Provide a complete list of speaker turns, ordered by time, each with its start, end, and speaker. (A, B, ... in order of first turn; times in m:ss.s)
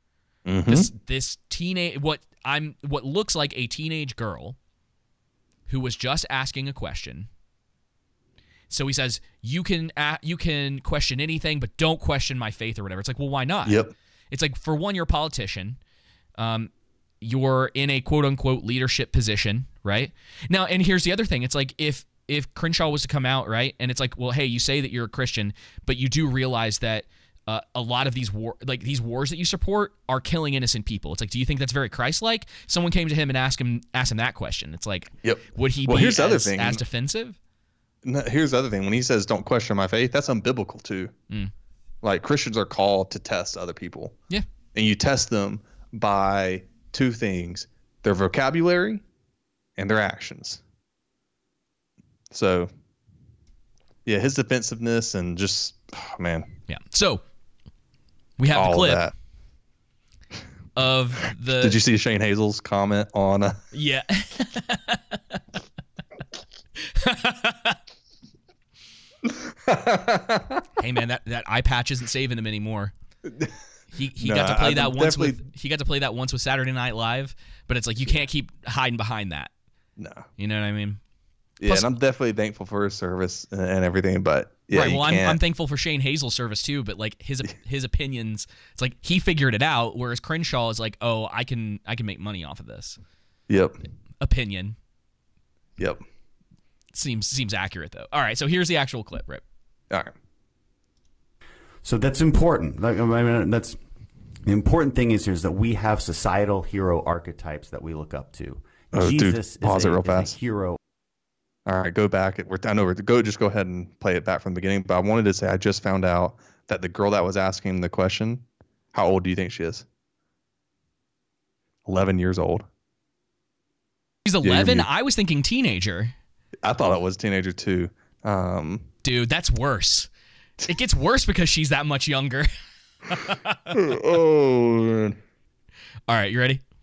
0:00.5-0:00.9 A
0:00.7-0:04.6 B
0:05.7-0:07.3 B
0:08.7-0:15.8 B
0:13.6-0:13.9 A
0:16.4-0:16.7 B
0:17.2-0:37.4 B
0:35.2-0:36.8 A
0:38.0-0:41.1 A
0:42.0-0:44.2 A
0:44.7-0:49.0 A
0:49.8-0:50.6 A
0:52.3-0:52.7 A
0:54.0-0:56.6 A
0:56.7-0:57.2 B
0:58.4-0:59.1 B
0:58.5-0:59.1 A
1:00.8-1:01.8 B
1:01.6-1:03.6 A
1:03.7-1:05.4 B
1:07.0-1:07.8 B
1:09.3-1:10.7 A
1:10.8-1:12.9 B
1:13.3-1:13.5 A
1:13.9-1:19.5 B
1:14.2-1:15.4 A
1:20.0-1:20.3 A
1:20.4-1:21.0 B
1:21.6-1:25.4 A
1:21.6-1:21.9 B
1:24.7-1:33.0 B
1:33.5-1:33.8 A
1:34.2-1:34.8 B
1:36.9-1:39.4 B
1:41.8-1:43.8 C
1:44.5-1:50.8 C
1:48.9-1:50.3 A
1:51.7-1:59.8 A
2:01.9-2:02.7 A
2:04.3-2:06.1 B
2:04.4-2:04.9 A
2:06.6-2:08.9 A
2:09.0-2:10.1 B
2:10.7-2:12.5 B
2:13.1-2:13.8 B
2:13.7-2:15.2 A
2:16.1-2:16.6 B